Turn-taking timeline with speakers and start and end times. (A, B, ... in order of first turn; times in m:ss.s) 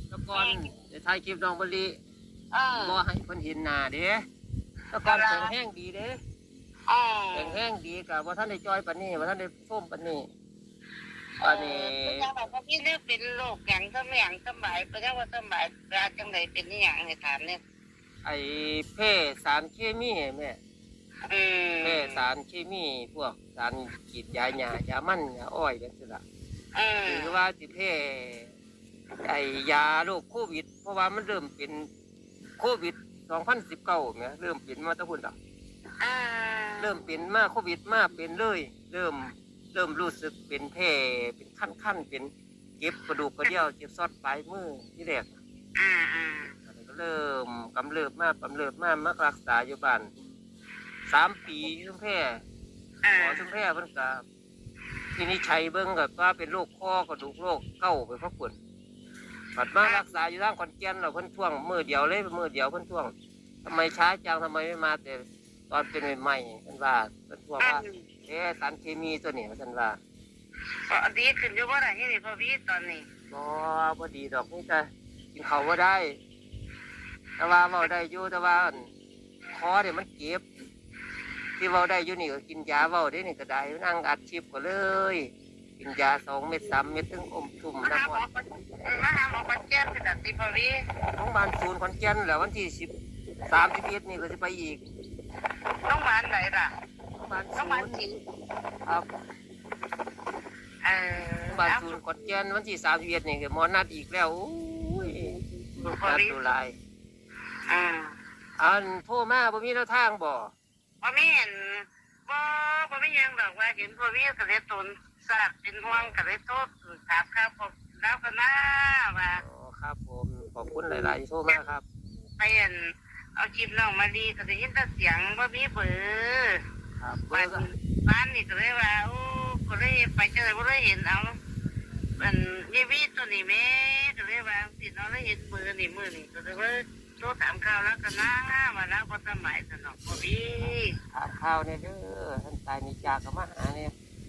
0:00.1-0:02.0 A
0:00.4-0:00.6 B
0:02.5-0:03.0 B
0:02.8-0:04.3 A
0:04.9-0:06.2 A
0:05.0-0:05.5 B
0:06.9-0:07.6 B
0:07.3-0:10.3 A
0:11.4-0:17.6 B
0:11.4-0:12.3 A
0:18.2-0:20.6 A
0:21.3-0:22.2 B
0:21.8-0:26.2 A
0:26.7-0:27.4 B
0:27.0-0:28.5 A
0:29.2-0:31.9 A
0:32.6-0:35.3 A
0:36.0-0:36.9 B
0:36.8-0:45.4 A
0:45.8-0:46.5 B
0:46.7-0:50.1 A
0:51.1-0:52.4 A
0:53.0-0:53.4 B
0:53.2-0:54.2 A
0:55.2-0:58.6 A
0:59.6-1:03.1 A
0:59.8-1:00.1 B
1:03.6-1:10.0 A
1:07.6-1:08.1 B
1:10.9-1:13.1 B
1:13.3-1:16.2 A
1:17.4-1:18.9 A
1:19.5-1:20.5 A
1:21.6-1:28.2 A
1:27.8-1:30.8 B
1:31.1-1:32.9 A
1:33.5-1:34.8 A
1:35.8-1:36.7 B
1:37.2-1:38.0 A
1:37.6-1:38.2 B
1:40.8-1:42.0 B
1:41.5-1:45.3 A
1:45.2-1:46.5 B
1:46.0-1:46.8 A
1:47.7-1:48.1 B
1:48.6-1:50.5 A
1:51.0-1:59.4 B
1:59.4-2:01.8 A
2:02.4-2:02.8 B
2:03.4-2:06.6 B
2:07.0-2:07.7 A
2:07.3-2:11.4 B
2:12.2-2:21.0 B
2:21.1-2:23.9 A